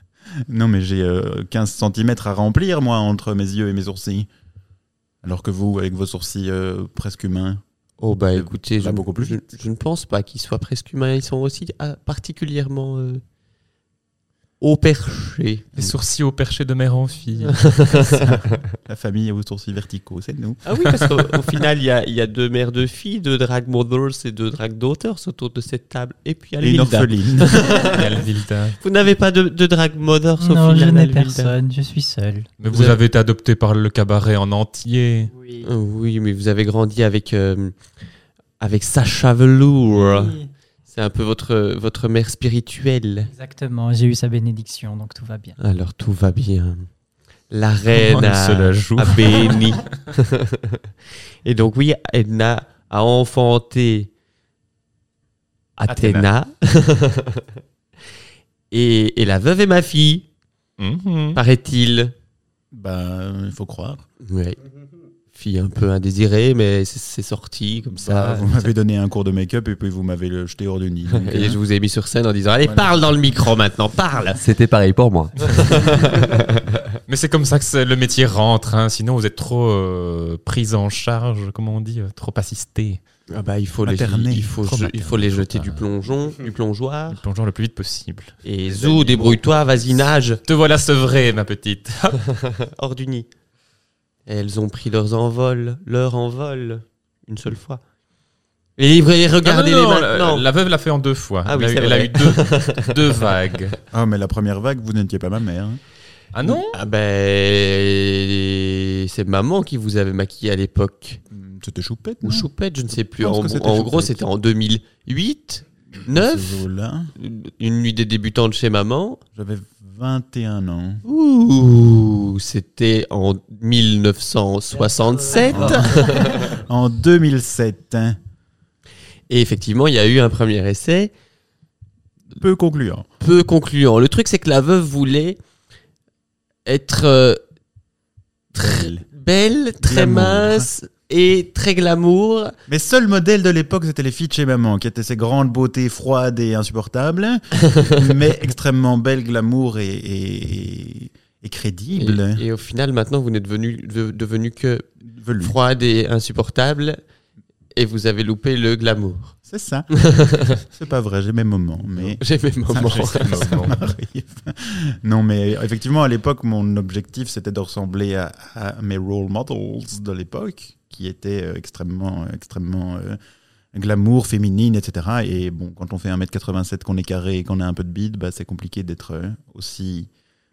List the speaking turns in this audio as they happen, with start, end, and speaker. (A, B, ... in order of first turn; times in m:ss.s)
0:00.5-0:04.3 A
0:05.2-0:07.6 A
0:08.0-0:13.2 B
0:08.3-0:09.4 A
0:14.6-0:15.8 B
0:15.8-0:17.6 C
0:17.5-0:18.6 B
0:18.8-0:20.6 A
0:20.6-0:28.2 B
0:26.6-0:27.7 A
0:27.7-0:28.8 C
0:28.8-0:31.6 B
0:30.4-0:32.5 D
0:32.6-0:35.3 C
0:32.7-0:33.0 B
0:35.3-0:35.7 D
0:35.6-0:37.8 B
0:38.6-0:40.4 B
0:39.9-0:40.5 D
0:40.9-0:43.3 B
0:43.3-0:45.6 D
0:45.6-0:46.9 B
0:47.5-0:50.8 B
0:47.9-0:49.7 C
0:51.4-0:54.1 B
0:55.8-0:57.4 B
0:55.9-0:56.3 C
0:58.7-1:00.3 B
1:00.8-1:01.4 C
1:01.4-1:02.1 B
1:02.7-1:04.0 A
1:04.2-1:04.6 B
1:05.4-1:08.7 B
1:07.9-1:11.6 A
1:11.1-1:14.4 B
1:12.6-1:13.0 A
1:14.3-1:16.0 E
1:15.4-1:16.6 B
1:17.1-1:23.0 C
1:23.3-1:27.2 B
1:23.8-1:24.5 A
1:24.6-1:25.8 C
1:27.1-1:28.4 C
1:28.4-1:30.4 B
1:28.7-1:29.4 E
1:30.4-1:32.2 C
1:32.4-1:33.3 B
1:34.3-1:37.8 B
1:38.8-1:40.4 B
1:39.4-1:43.8 C
1:41.5-1:43.2 B
1:43.9-1:45.8 A
1:46.3-1:46.8 C
1:46.5-1:51.2 B
1:51.3-1:52.5 A
1:52.2-1:56.6 B
1:53.2-1:54.2 A
1:56.0-1:57.1 A
1:57.2-1:59.2 B
1:59.4-2:01.0 A
2:01.0-2:06.6 B
2:05.5-2:08.2 A
2:09.3-2:11.1 B
2:12.3-2:13.1 A
2:13.2-2:15.4 B
2:16.7-2:17.4 B
2:18.5-2:22.6 B
2:18.6-2:19.0 A
2:19.8-2:20.7 A
2:22.7-2:32.4 A
2:32.0-2:34.9 B
2:35.1-2:35.6 A
2:35.4-2:37.0 B
2:37.8-2:39.4 B
2:39.5-2:39.9 A
2:39.9-2:40.6 B
2:40.6-2:42.2 A
2:41.9-2:43.6 B
2:42.7-2:43.8 C
2:42.9-2:53.2 A
2:53.7-3:00.1 A